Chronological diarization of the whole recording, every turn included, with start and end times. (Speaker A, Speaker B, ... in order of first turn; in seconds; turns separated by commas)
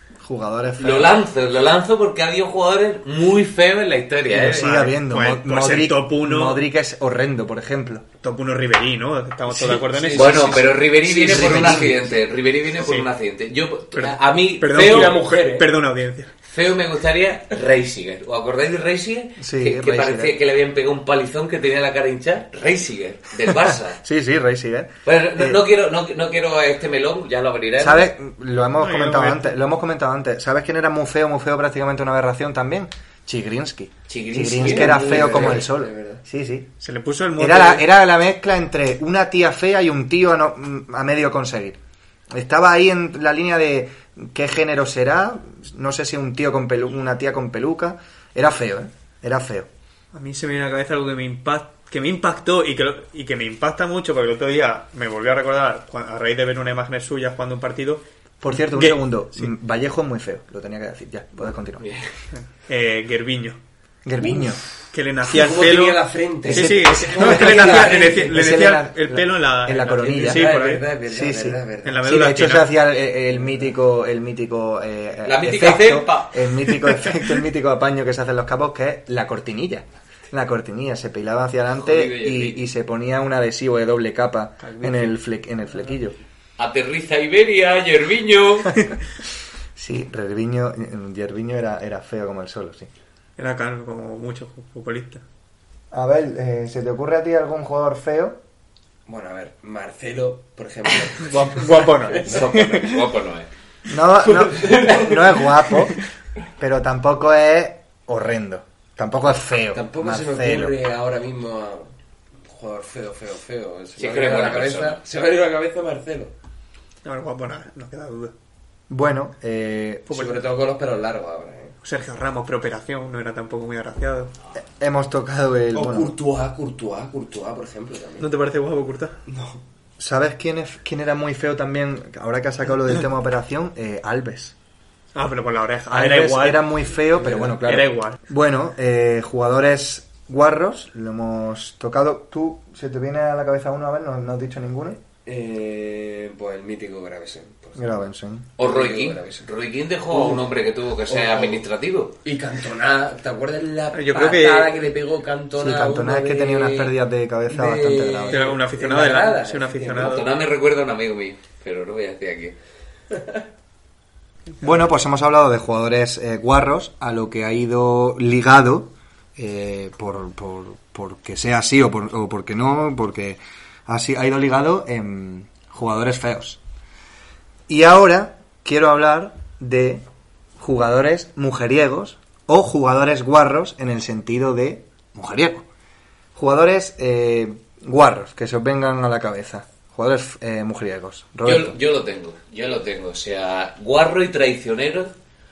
Speaker A: 0.2-1.2, Speaker B: 0.8-4.7, Speaker A: 4.3-8.1, Speaker C: 4.5-6.6, Speaker C: 8.2-10.7, Speaker D: 9.8-12.0, Speaker B: 10.1-15.2, Speaker A: 11.3-11.9, Speaker C: 12.8-13.1, Speaker C: 13.9-16.3, Speaker D: 14.7-15.7, Speaker B: 16.5-24.0, Speaker A: 19.4-20.4, Speaker A: 23.5-25.6, Speaker B: 25.0-28.1, Speaker A: 27.8-36.7, Speaker C: 28.8-29.6, Speaker B: 34.1-35.6, Speaker D: 34.6-36.2, Speaker C: 36.8-37.9, Speaker A: 37.4-41.8, Speaker A: 42.3-49.7, Speaker C: 50.1-59.5, Speaker A: 58.4-61.8, Speaker B: 61.8-62.1, Speaker C: 62.3-63.6, Speaker A: 64.0-64.6, Speaker D: 64.2-64.6, Speaker C: 64.9-70.9, Speaker D: 65.2-68.3, Speaker A: 66.4-70.5, Speaker D: 70.1-72.0, Speaker A: 71.1-86.2, Speaker C: 71.8-72.7, Speaker B: 75.2-76.5, Speaker B: 81.7-82.7, Speaker B: 86.6-88.8, Speaker A: 89.8-92.9, Speaker C: 93.4-95.2, Speaker A: 95.9-98.4, Speaker D: 99.1-102.4, Speaker C: 101.2-103.0, Speaker B: 102.2-103.5, Speaker A: 103.9-106.0, Speaker D: 104.4-105.5, Speaker A: 106.6-110.8, Speaker D: 109.7-111.9, Speaker D: 112.5-116.3, Speaker B: 114.0-115.0, Speaker C: 117.0-118.3, Speaker A: 118.9-120.3, Speaker C: 120.1-120.3, Speaker D: 120.1-121.7, Speaker C: 121.8-124.3, Speaker A: 124.6-126.1, Speaker D: 125.7-128.3, Speaker C: 128.2-129.2, Speaker D: 129.3-129.6, Speaker A: 130.0-134.5, Speaker C: 135.1-136.7, Speaker A: 135.9-145.0, Speaker D: 137.2-137.6, Speaker C: 137.6-138.2, Speaker D: 145.2-149.5, Speaker A: 147.8-148.5, Speaker B: 148.6-152.1, Speaker D: 150.1-150.5, Speaker D: 151.1-151.6, Speaker D: 152.2-156.9, Speaker C: 153.9-154.8, Speaker A: 155.6-158.4, Speaker D: 157.5-160.2, Speaker C: 158.3-160.3, Speaker B: 160.0-162.5, Speaker A: 164.6-176.6, Speaker A: 177.7-180.0, Speaker A: 180.6-185.7, Speaker A: 186.3-191.8, Speaker B: 191.4-195.1